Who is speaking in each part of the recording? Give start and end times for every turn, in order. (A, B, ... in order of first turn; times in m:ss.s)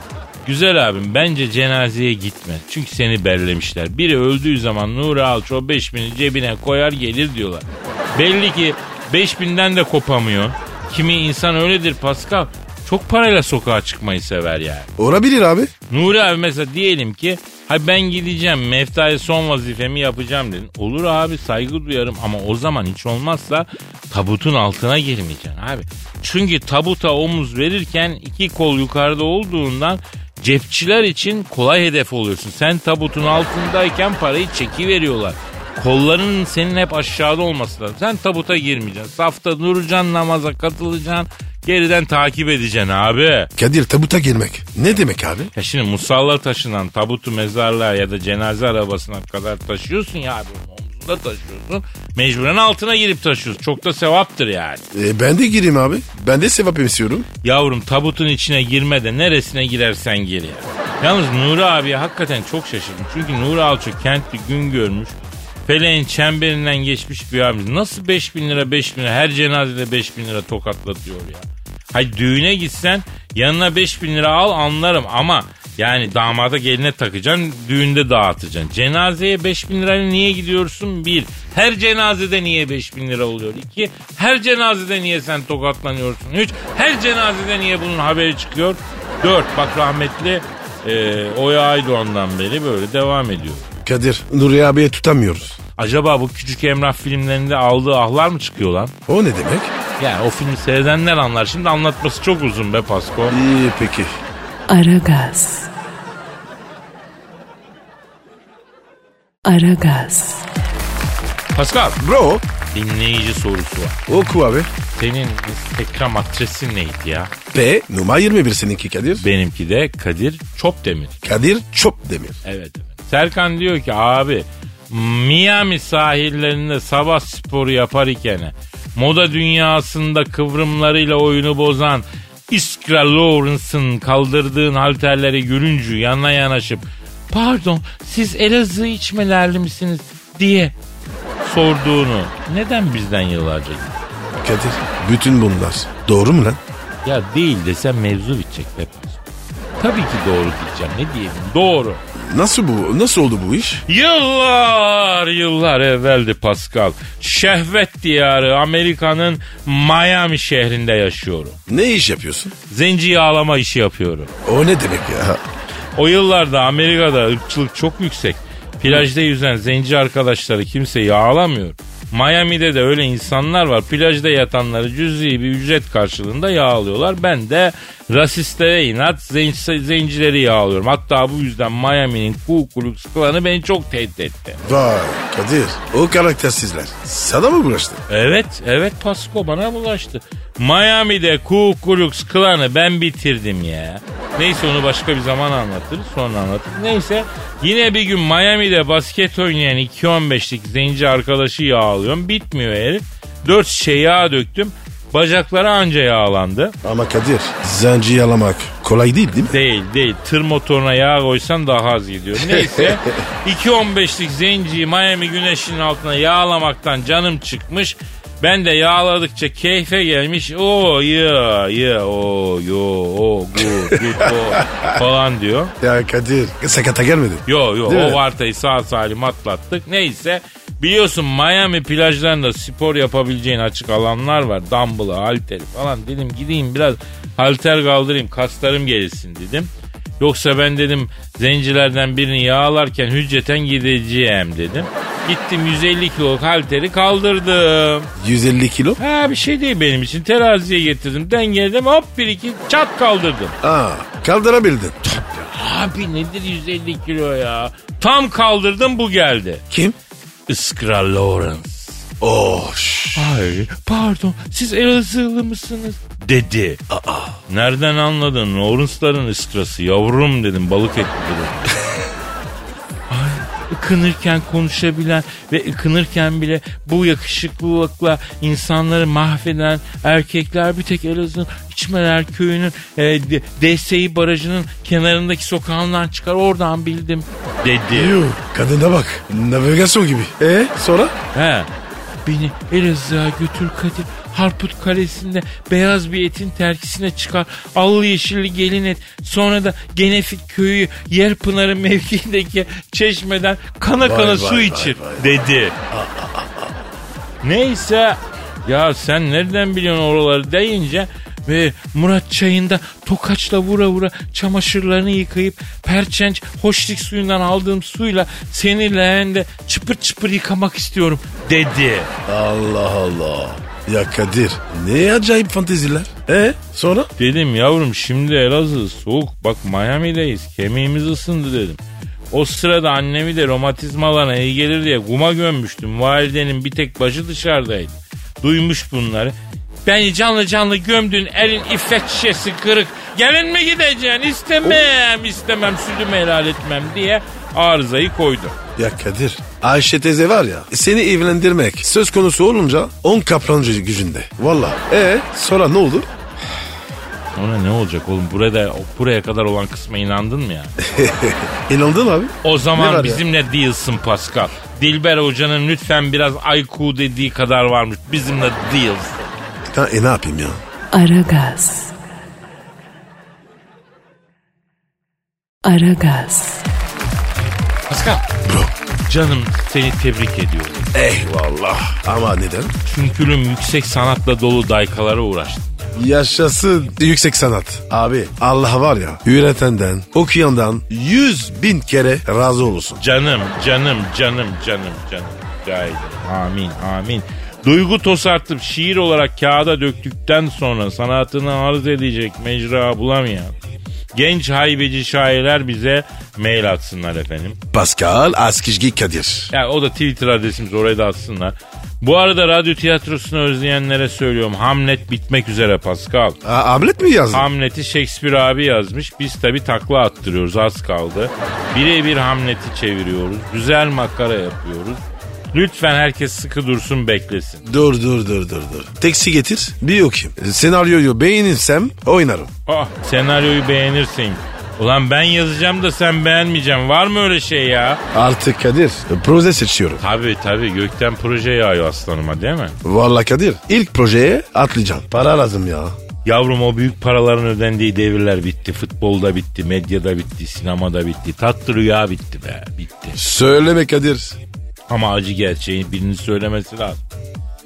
0:00.4-0:14.9 A
0:15.0-0:15.7 B
0:15.9-0:43.5 A
0:43.6-0:45.5 B
0:45.6-0:54.8 A
0:54.9-0:57.3 B
0:57.4-1:33.7 A
1:33.8-1:35.6 B
1:35.8-1:38.9 A
1:39.1-1:39.7 B
1:40.0-1:43.4 A
1:43.3-1:44.2 B
1:44.7-1:45.7 C
1:49.4-1:50.5 C
1:51.5-1:52.0 A
1:52.0-1:52.4 B
1:52.7-1:54.0 A
1:54.1-1:54.7 B
1:54.9-1:57.3 A
1:57.5-1:59.2 B
1:59.2-2:01.2 A
2:01.2-2:02.4 B
2:02.4-2:20.8 A
2:21.4-2:24.0 A
2:24.4-2:26.6 B
2:27.0-2:32.0 A
2:32.2-2:33.8 B
2:33.9-2:41.6 A
2:41.7-2:42.5 B
2:42.7-2:44.3 A
2:44.4-2:45.4 B
2:46.0-3:04.6 A
3:04.6-3:08.0 B
3:08.1-3:26.8 A
3:26.8-3:29.6 B
3:29.5-3:45.7 A
3:32.4-3:33.1 B
3:43.9-3:45.0 B
3:45.8-3:48.2 B
3:47.5-4:08.1 A
4:08.2-4:09.0 B
4:09.0-4:13.6 A
4:13.6-4:15.0 B
4:15.0-4:19.6 A
4:19.7-4:20.0 B
4:20.5-4:22.1 A
4:22.2-4:23.4 B
4:23.2-4:26.8 A
4:26.9-4:27.4 B
4:27.5-4:31.8 A
4:33.1-4:48.2 A
4:47.9-4:51.2 B
4:51.3-4:51.7 A
4:52.2-5:05.8 A
5:04.0-5:05.3 B
5:05.9-5:06.7 B
5:07.4-5:22.1 A
5:22.3-5:27.1 B
5:27.2-5:31.8 A
5:32.3-5:39.3 A
5:39.9-5:48.6 A
5:48.8-5:56.1 B
5:57.4-6:00.9 A
6:00.8-6:03.2 B
6:02.4-6:09.3 A
6:09.7-6:10.6 B
6:10.9-6:11.9 C
6:15.6-6:16.6 C
6:17.9-6:18.3 A
6:18.4-6:18.7 B
6:19.1-6:20.9 A
6:20.9-6:22.7 B
6:22.8-6:26.0 A
6:26.0-6:33.0 B
6:33.0-6:43.5 A
6:44.1-6:47.6 A
6:47.7-6:49.5 B
6:49.5-6:56.4 A
6:56.4-6:57.5 B
6:57.3-7:05.0 A
7:05.5-7:07.7 A
7:07.6-7:12.5 B
7:12.7-7:18.0 A
7:18.1-7:20.0 B
7:20.0-7:22.8 A
7:22.8-7:26.0 B
7:26.2-7:33.2 A
7:33.2-7:34.4 B
7:34.9-7:37.0 A